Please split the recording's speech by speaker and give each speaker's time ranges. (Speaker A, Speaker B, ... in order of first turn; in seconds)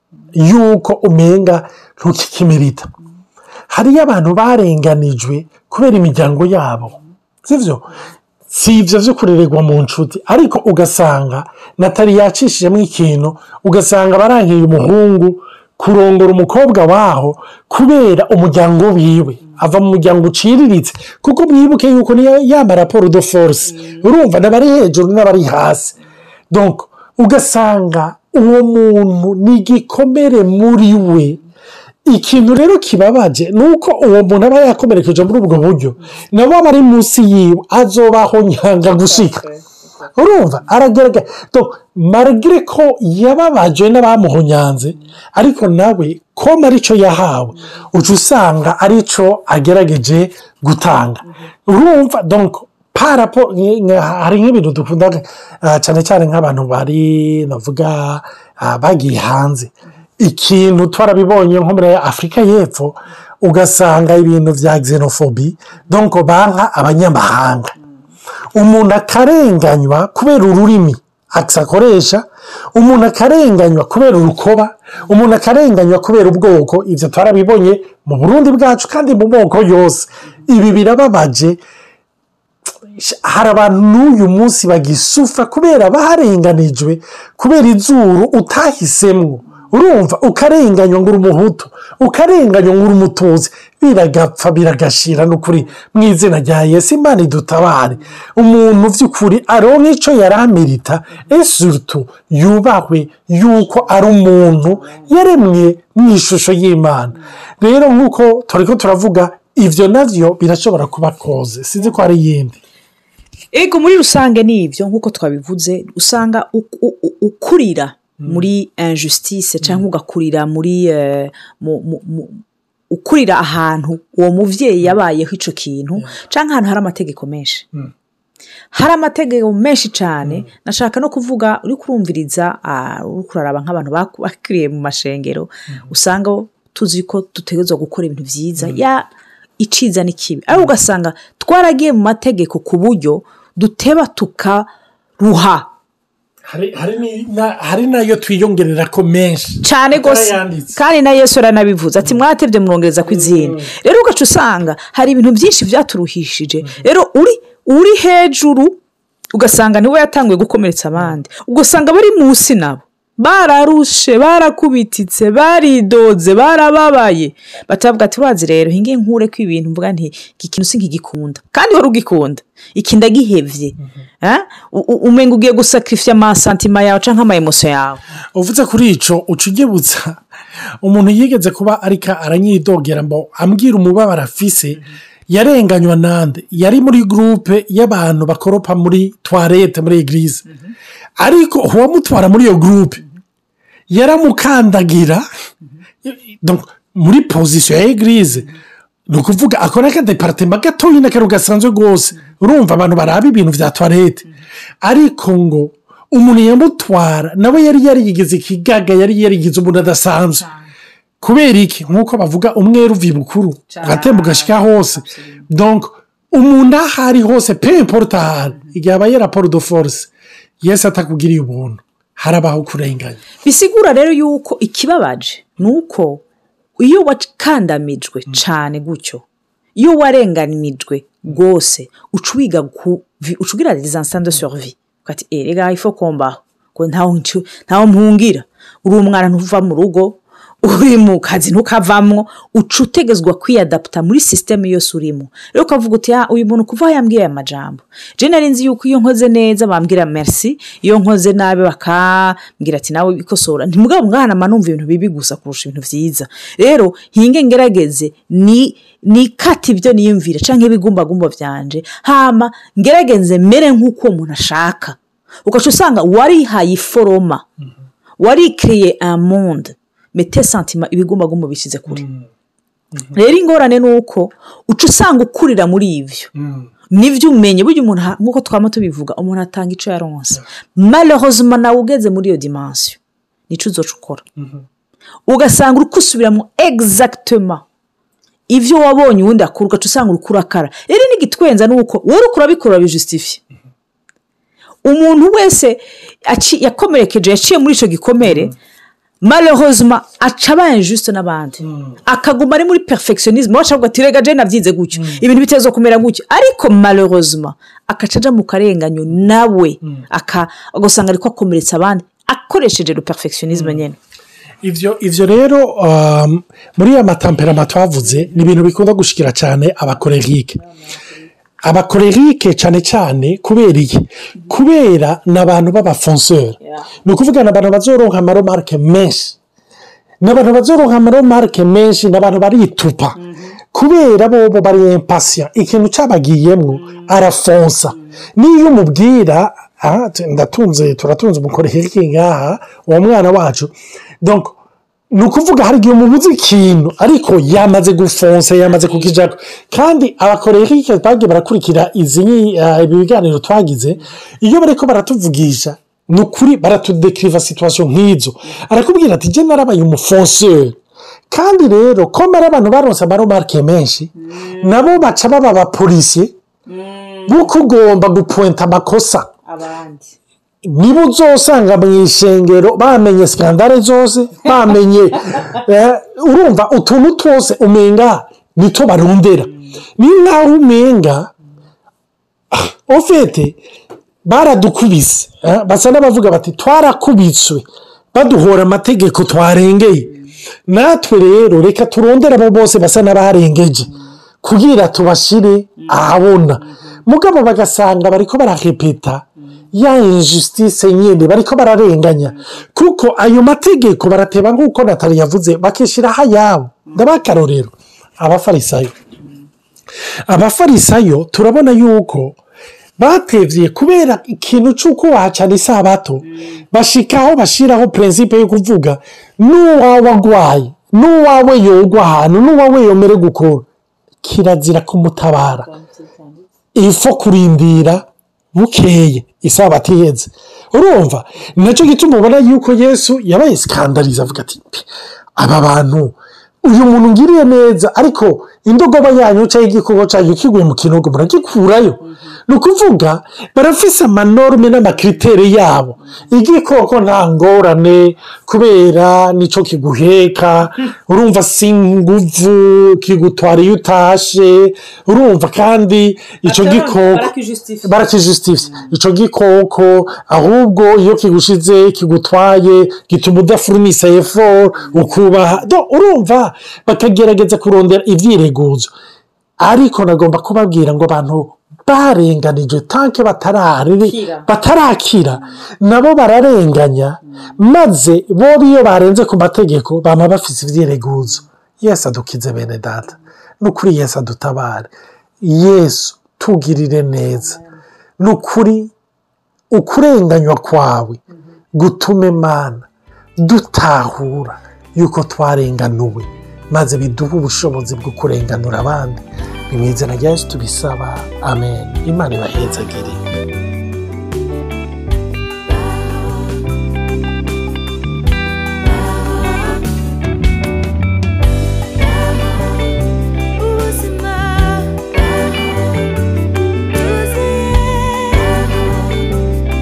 Speaker A: 0.3-2.9, 3.7-7.9, 8.5-25.9, 26.5-31.4, 32.0-39.4, 40.1-67.8, 68.5-81.6, 82.8-112.6, 118.2-118.5, 130.2-130.5, 146.4-150.8, 153.1-153.7, 178.3-180.2, 180.8-190.4, 191.2-193.0, 193.9-195.2, 196.0-198.5, 199.1-204.3, 204.8-210.5, 211.2-223.2, 271.9-272.3, 276.3-276.7, 284.4-284.6, 298.2-298.5, 301.6-302.0, 304.9-305.2, 313.5-313.8, 314.6-320.6, 321.6-329.4, 330.2-333.2, 333.7-344.6, 345.1-360.8, 361.3-366.3, 367.3-369.3, 370.6-381.3, 382.5-383.6, 384.2-390.1, 390.6-393.9, 394.4-409.0, 410.2-412.4, 413.0-423.6, 424.2-425.7, 426.7-457.3, 457.8-468.9, 469.6-487.6, 488.2-488.9, 489.7-491.2, 491.7-492.9, 493.4-503.2
Speaker B: 23.7-24.0, 39.0-39.6, 104.5-105.1, 113.5-127.7, 128.7-144.7, 145.2-145.7, 149.6-158.8, 159.3-178.0, 213.7-215.4, 223.4-226.2, 226.8-229.2, 229.8-267.4, 268.2-272.0, 273.1-276.3, 276.9-284.2, 285.2-287.6, 288.5-293.4, 294.8-298.5, 299.2-314.0, 320.6-321.3, 326.6-326.9, 333.1-333.6, 336.7-337.2, 337.9-338.2, 364.1-365.1, 366.7-367.5, 369.4-370.1, 375.3-375.6, 379.4-379.8, 393.9-394.1, 395.8-396.0, 396.6-397.0, 402.3-402.6, 416.2-416.6, 425.4-426.4, 456.4-457.9, 458.6-458.9, 464.7-465.6, 474.0-474.5, 513.6-516.1, 516.9-519.2